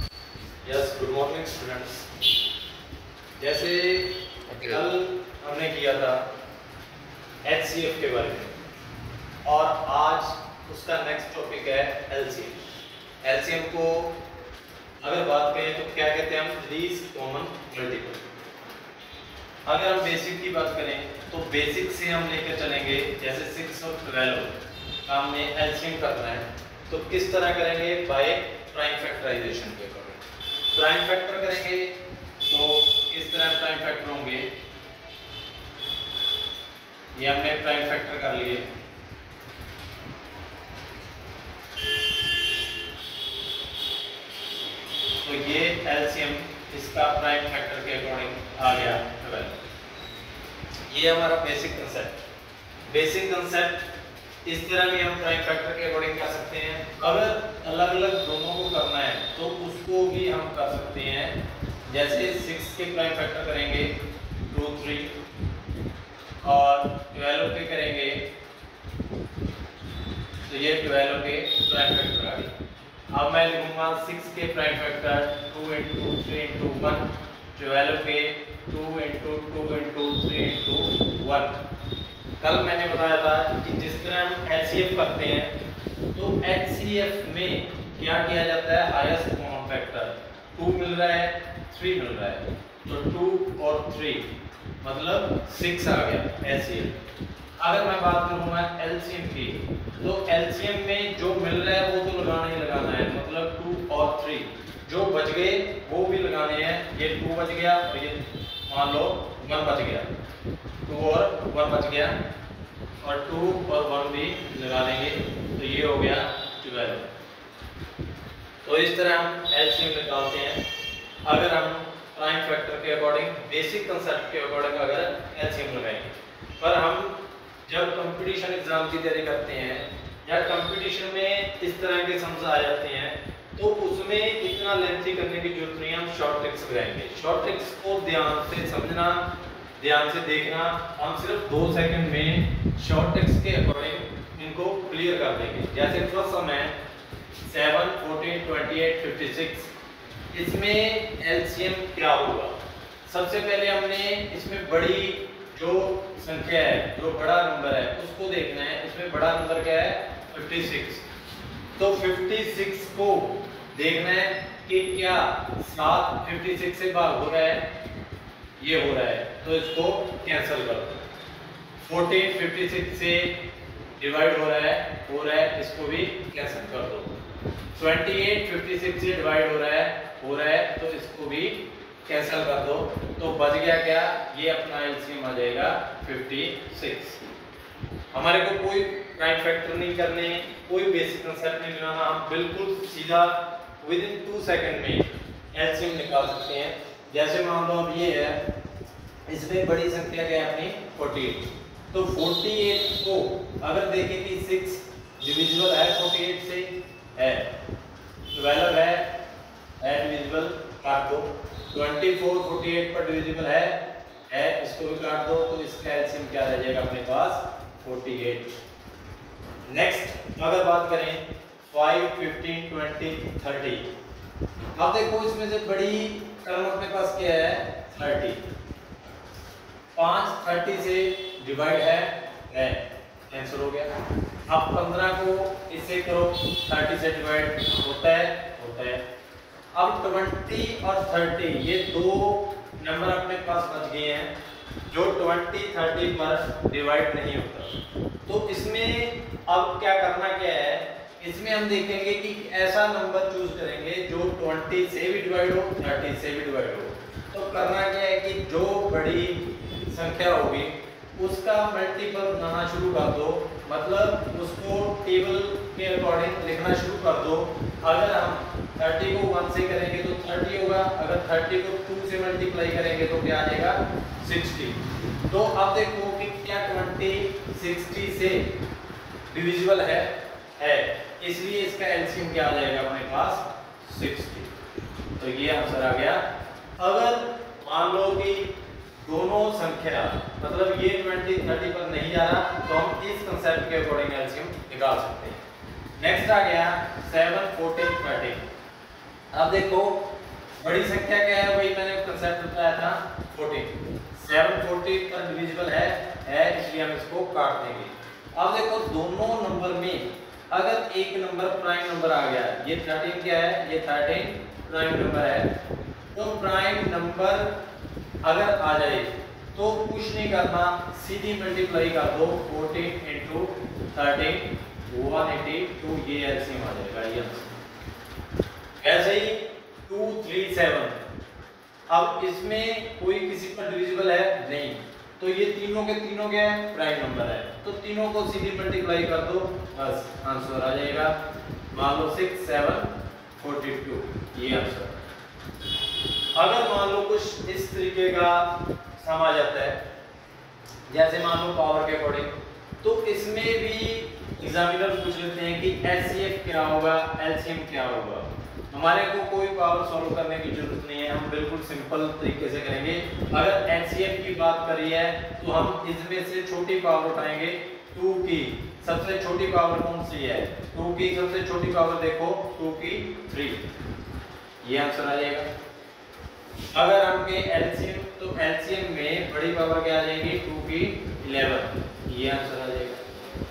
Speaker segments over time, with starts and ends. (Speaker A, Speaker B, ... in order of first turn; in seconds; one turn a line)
Speaker A: 0.6-2.1
Speaker A: 3.4-6.3
Speaker A: 7.4-8.5
Speaker A: 9.4-12.6
Speaker A: 13.2-14.2
Speaker A: 15.0-18.2
Speaker A: 19.6-24.5
Speaker A: 25.1-34.5
Speaker A: 37.1-38.7
Speaker A: 45.2-49.5
Speaker A: 50.9-52.1
Speaker A: 52.9-53.9
Speaker A: 54.4-63.9
Speaker A: 64.5-65.1
Speaker A: 66.4-68.2
Speaker A: 70.5-72.5
Speaker A: 73.1-81.6
Speaker A: 82.4-85.5
Speaker A: 86.1-94.3
Speaker A: 94.8-97.0
Speaker A: 97.6-110.1
Speaker A: 110.8-112.2
Speaker A: 113.0-117.1
Speaker A: 118.6-120.6
Speaker A: 121.2-139.3
Speaker A: 139.8-146.7
Speaker A: 147.4-149.7
Speaker A: 150.3-152.5
Speaker A: 153.1-161.0
Speaker A: 161.8-167.7
Speaker A: 168.6-171.0
Speaker A: 171.8-173.4
Speaker A: 174.0-177.2
Speaker A: 177.7-187.2
Speaker A: 188.1-198.4
Speaker A: 199.2-207.5
Speaker A: 208.3-209.1
Speaker A: 209.8-218.6
Speaker A: 219.7-223.9
Speaker A: 224.8-228.4
Speaker A: 229.9-233.9
Speaker A: 234.4-239.0
Speaker A: 239.7-244.3
Speaker A: 244.9-278.5
Speaker A: 279.3-284.5
Speaker A: 285.2-286.2
Speaker A: 286.8-295.4
Speaker A: 296.0-298.4
Speaker A: 299.3-300.1
Speaker A: 300.6-315.5
Speaker A: 316.1-317.5
Speaker A: 318.2-327.6
Speaker A: 328.8-331.0
Speaker A: 331.9-341.2
Speaker A: 341.7-345.0
Speaker A: 346.3-349.8
Speaker A: 350.9-373.6
Speaker A: 374.6-375.5
Speaker A: 376.7-383.0